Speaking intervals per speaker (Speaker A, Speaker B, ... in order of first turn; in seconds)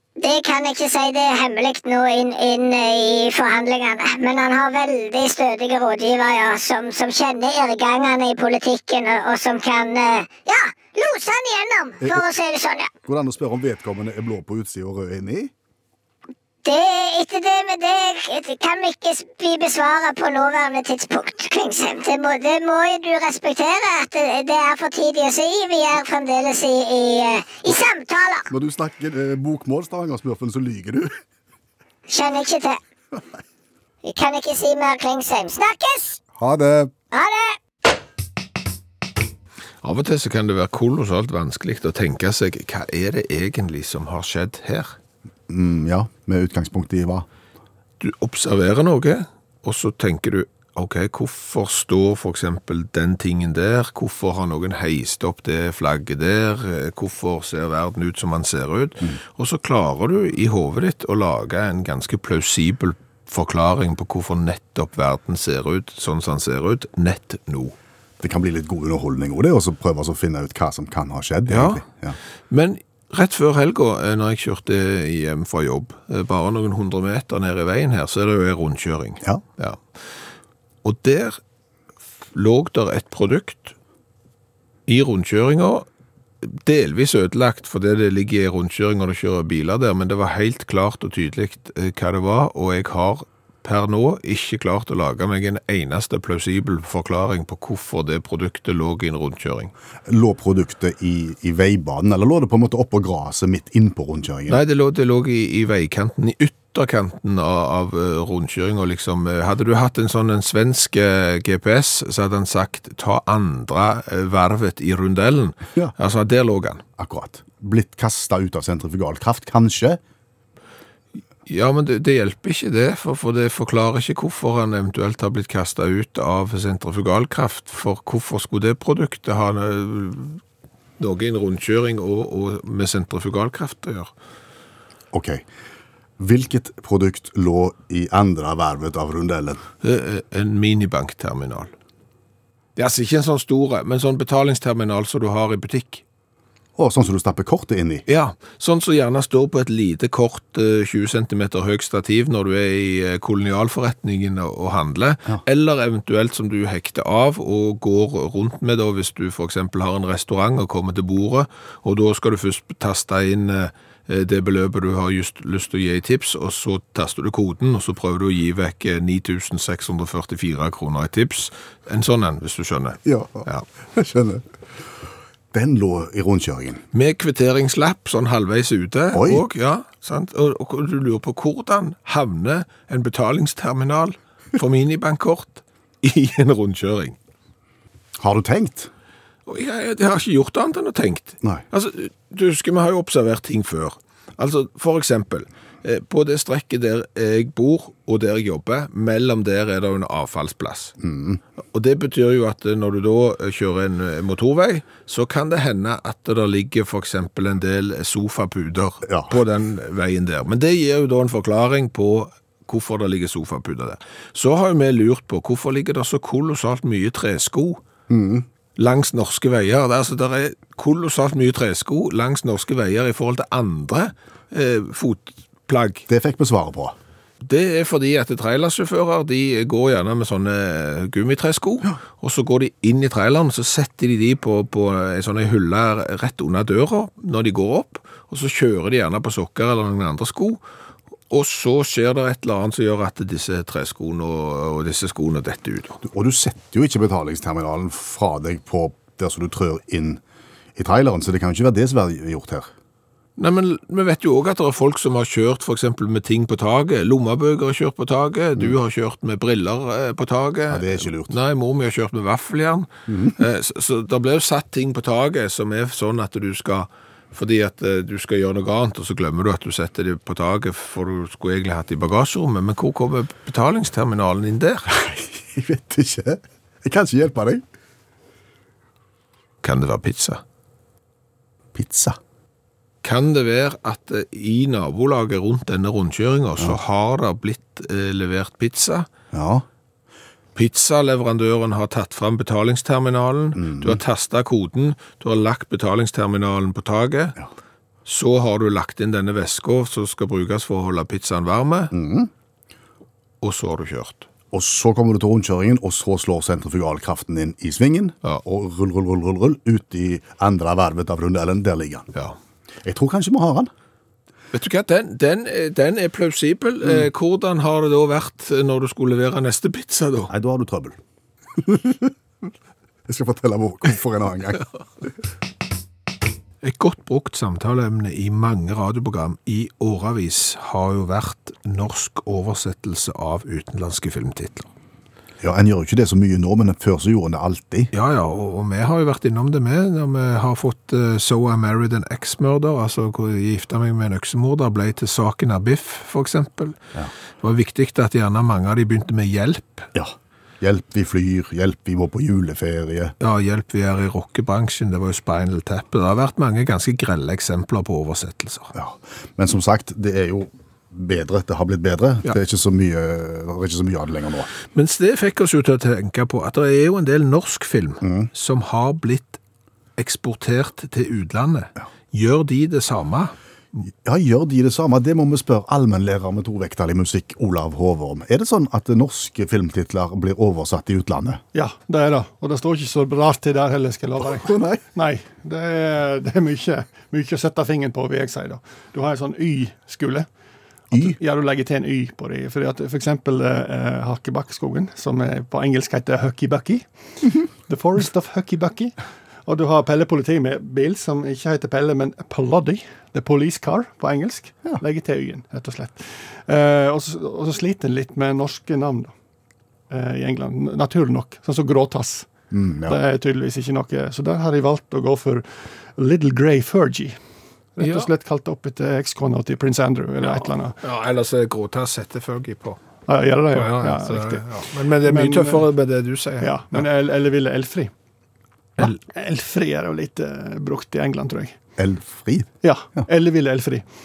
Speaker A: 0.2-12.9, 16.6-28.5, 32.1-32.8, 34.0-36.2, 37.1-37.6
Speaker B: 13.1-15.5, 28.5-31.2, 36.4-36.9, 45.5-47.3, 68.2-72.2, 100.1-104.6, 117.0-120.0, 135.1-135.4, 136.2-139.6, 146.8-148.1, 173.1-174.4, 175.5-176.8, 179.1-179.4, 188.2-188.9, 201.0-201.4, 209.1-209.3, 218.1-218.5, 226.1-227.0, 246.0-250.2, 250.8-252.7, 260.7-261.4, 263.1-263.4, 274.9-277.6, 281.8-282.2, 289.3-289.6, 293.6-294.0, 301.9-302.3, 304.5-312.1, 312.8-313.7, 320.3-321.0, 321.6-322.1, 323.1-324.7, 335.4-337.9, 349.9-353.1, 358.7-364.5, 368.0-368.3, 374.1-381.4, 384.2-384.8, 390.9-391.2, 412.5-413.0, 431.8-432.5
Speaker C: 39.8-45.0, 48.0-67.8, 71.5-71.8, 72.5-79.8, 80.8-81.4, 82.3-83.8, 84.9-85.9, 86.4-99.7, 104.5-116.8, 121.5-130.4, 131.0-134.1, 139.8-141.7, 142.8-146.0, 148.1-173.7, 176.9-187.2, 189.5-200.9, 201.7-217.8, 218.8-226.1, 227.4-240.6, 241.3-246.0, 253.4-274.9, 279.6-280.4, 283.0-289.1, 290.6-297.4, 298.1-301.9, 303.4-304.3, 314.5-320.3, 326.6-334.7, 337.9-346.8, 347.4-349.9, 353.2-358.7, 364.7-369.4, 370.0-373.3, 417.8-418.1, 420.8-422.8, 423.5-426.9
Speaker D: 381.5-390.3, 390.9-396.9, 397.7-398.9, 399.5-409.1, 409.9-412.3, 412.9-415.4, 416.0-417.2, 417.8-420.8, 423.1-424.4, 425.0-425.6, 426.4-427.9, 428.8-431.6, 432.6-433.9